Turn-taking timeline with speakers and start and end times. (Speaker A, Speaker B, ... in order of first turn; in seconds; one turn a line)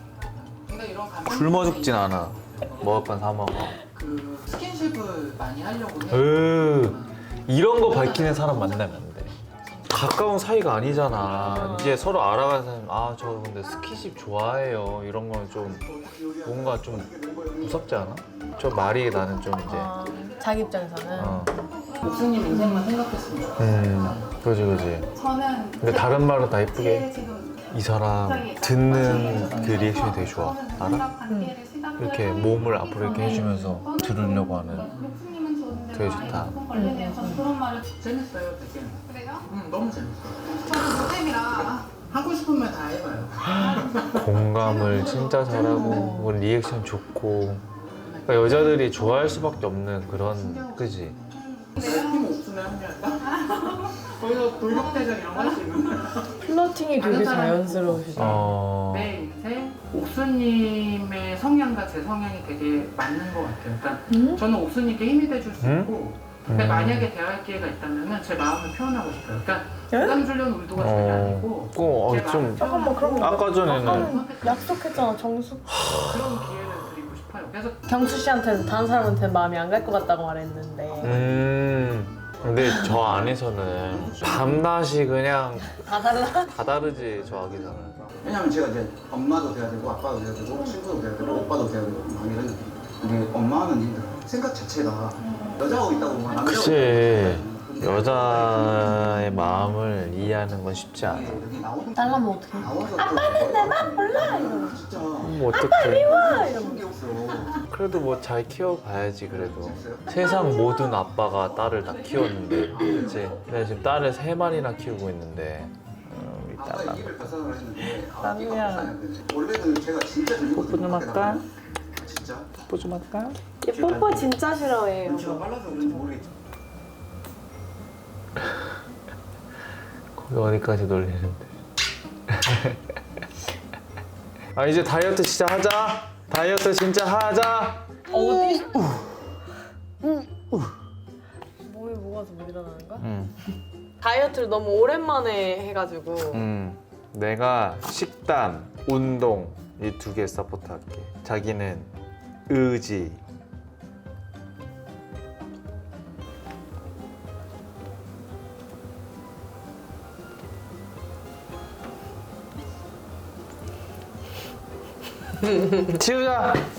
Speaker A: 0.3-3.0
Speaker B: 1.2-3.8
Speaker A: 3.9-7.2
Speaker B: 6.1-9.3
Speaker A: 7.8-9.0
Speaker A: 9.6-12.0
Speaker B: 9.9-15.8
Speaker C: 11.5-11.9
Speaker D: 15.7-18.2
Speaker B: 16.4-17.1
Speaker B: 17.6-19.9
Speaker E: 18.6-22.6
Speaker C: 19.6-21.5
Speaker B: 21.1-21.6
Speaker A: 22.0-24.2
Speaker C: 22.5-22.9
Speaker B: 23.6-25.0
Speaker E: 25.1-37.9
Speaker B: 25.8-27.1
Speaker B: 27.7-31.1
Speaker A: 28.9-30.2
Speaker C: 31.3-31.6
Speaker B: 32.0-34.9
Speaker C: 33.2-33.7
Speaker A: 34.8-35.2
Speaker B: 35.9-36.6
Speaker C: 36.7-37.4
Speaker A: 37.9-46.1
Speaker E: 39.0-39.5
Speaker E: 40.6-41.9
Speaker B: 43.5-47.6
Speaker E: 45.1-45.8
Speaker C: 45.8-46.3
Speaker A: 48.0-56.4
Speaker B: 48.2-51.1
Speaker E: 51.3-52.3
Speaker E: 53.3-55.6
Speaker C: 56.4-58.4
Speaker A: 57.0-74.9
Speaker B: 58.1-59.1
Speaker C: 64.1-64.4
Speaker B: 65.6-66.0
Speaker B: 66.5-67.1
Speaker C: 69.9-70.2
Speaker B: 70.7-74.2
Speaker C: 72.4-75.7
Speaker B: 75.7-76.3
Speaker A: 75.9-77.8
Speaker C: 77.9-81.2
Speaker B: 81.0-87.9
Speaker D: 84.0-84.5
Speaker C: 85.7-86.5
Speaker D: 86.5-98.6
Speaker B: 96.3-101.4
Speaker D: 101.2-105.3
Speaker C: 102.0-104.8
Speaker B: 105.2-106.2
Speaker C: 105.4-107.0
Speaker D: 106.1-107.6
Speaker B: 107.6-117.2
Speaker D: 109.3-110.1
Speaker C: 110.1-110.9
Speaker D: 116.6-121.4
Speaker B: 118.2-118.9
Speaker C: 118.5-118.8
Speaker B: 120.4-121.5
Speaker D: 122.0-122.5
Speaker B: 122.6-123.4
Speaker C: 123.6-125.5
Speaker D: 123.7-124.2
Speaker D: 125.0-126.3
Speaker B: 130.2-131.5
Speaker B: 132.3-132.8
Speaker B: 134.5-139.1
Speaker C: 138.1-138.9
Speaker B: 140.4-140.7
Speaker C: 141.6-143.1
Speaker B: 143.0-143.4
Speaker C: 144.0-146.4
Speaker B: 146.3-151.9
Speaker B: 152.5-153.2
Speaker C: 165.4-165.9
Speaker B: 165.9-166.6